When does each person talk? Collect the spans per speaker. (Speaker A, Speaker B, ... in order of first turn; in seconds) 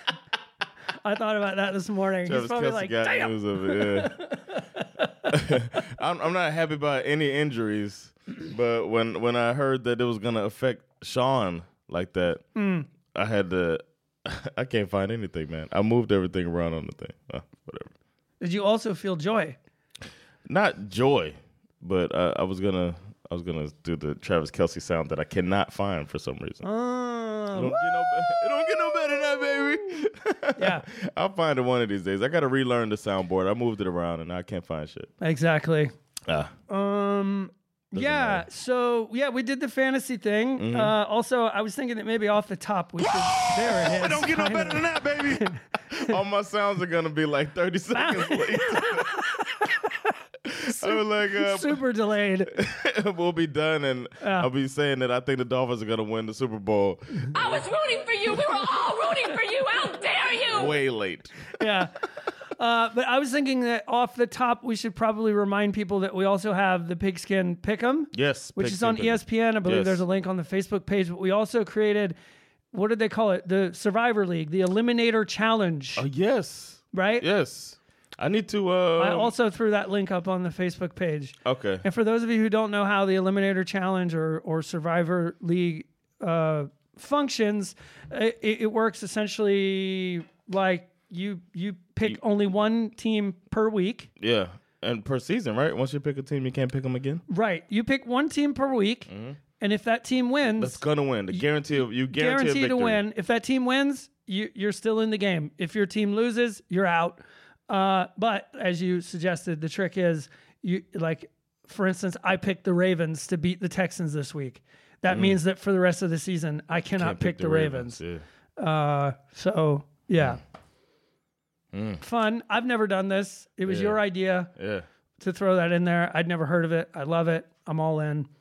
Speaker A: 1.0-5.0, 12.5-12.9, 18.4-19.6, 26.6-28.3, 30.6-30.8, 35.2-35.9, 36.7-46.1, 47.9-49.7, 50.7-52.5, 54.2-54.5, 61.6-61.9, 62.6-72.2, 72.7-76.0, 76.9-77.2, 79.0-94.1, 97.3-100.8, 102.1-118.0, 118.6-120.4, 122.0-124.5, 125.2-128.3
Speaker B: 2.2-4.2, 5.3-12.4, 13.1-17.9, 20.5-26.6, 27.5-35.1, 36.3-36.5, 37.9-38.4, 40.6-40.9, 43.1-49.2, 50.5-51.8, 52.5-57.3, 60.5-61.3, 68.1-70.0, 76.0-79.3, 81.4-81.8, 94.2-97.2, 99.1-99.4, 100.6-103.0, 115.1-115.4, 116.9-118.2, 121.7-122.0, 123.7-124.0, 124.5-124.8
Speaker C: 57.3-60.7